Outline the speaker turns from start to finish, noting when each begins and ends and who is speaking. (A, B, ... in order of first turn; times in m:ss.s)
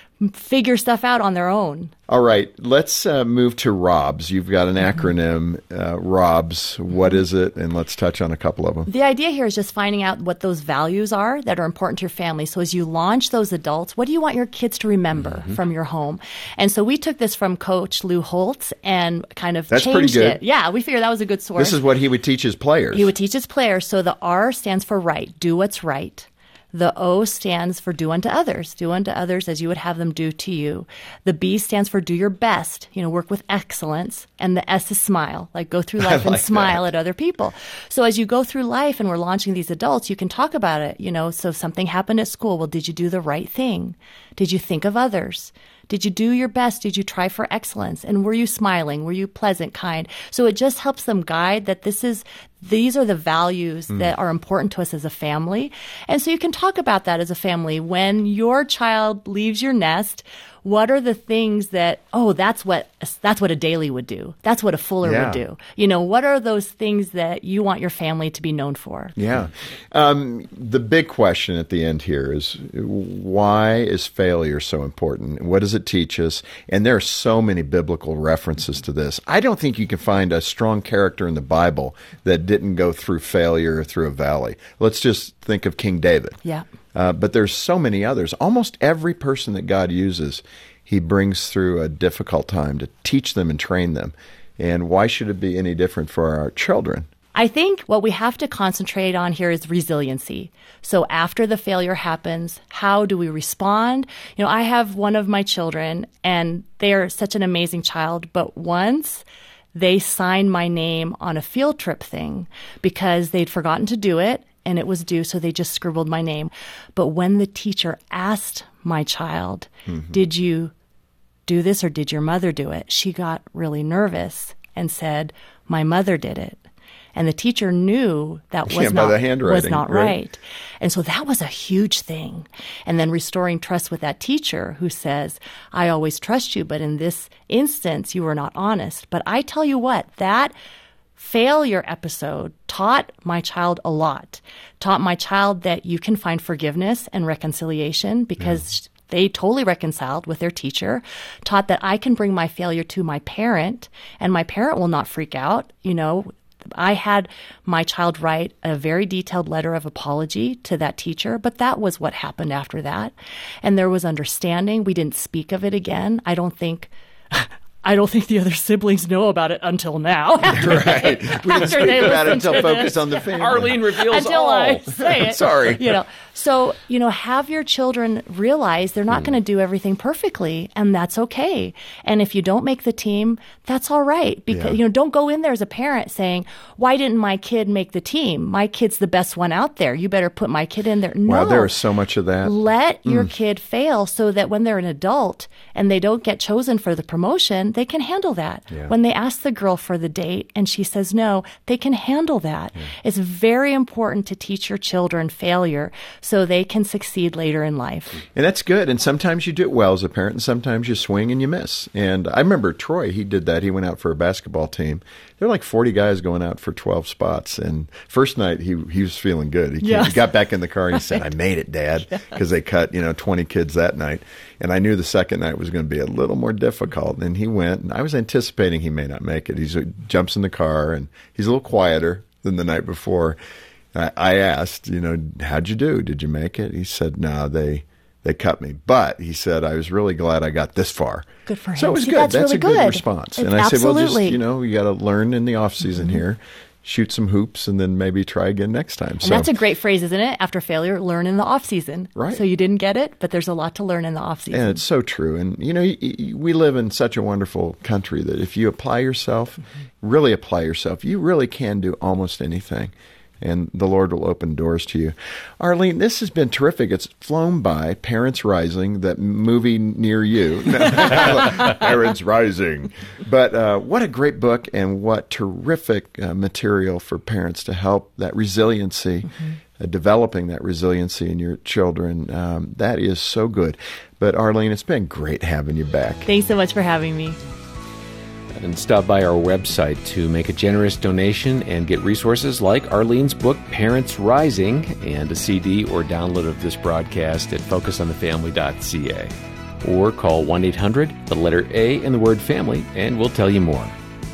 0:00.2-0:01.9 A
0:02.1-0:08.9 B
0:08.9-0:21.8 A
0:19.7-0:20.4 B
0:21.6-0:23.1 B
0:22.9-1:09.2 A
0:36.0-0:36.9 B
1:05.0-1:05.4 B
1:09.2-1:26.4 B
1:26.9-1:37.1 B
1:37.3-2:00.7 A
1:59.9-2:00.2 B
2:01.5-2:06.6 A
2:07.1-2:20.5 A
2:08.7-2:10.2 B
2:21.2-3:11.7 A
2:50.5-2:56.0 B
2:53.3-2:54.8 C
3:04.5-3:04.8 B
3:11.2-3:12.5 B
3:12.4-3:28.2 A
3:28.3-3:53.4 B
3:39.8-3:40.3 A
3:40.9-3:41.2 A
3:53.9-4:09.5 B
4:01.5-4:04.4 A
4:09.2-4:14.8 A
4:12.2-4:12.4 B
4:14.5-4:46.3 B
4:46.2-4:47.4 A
4:48.6-5:03.9 C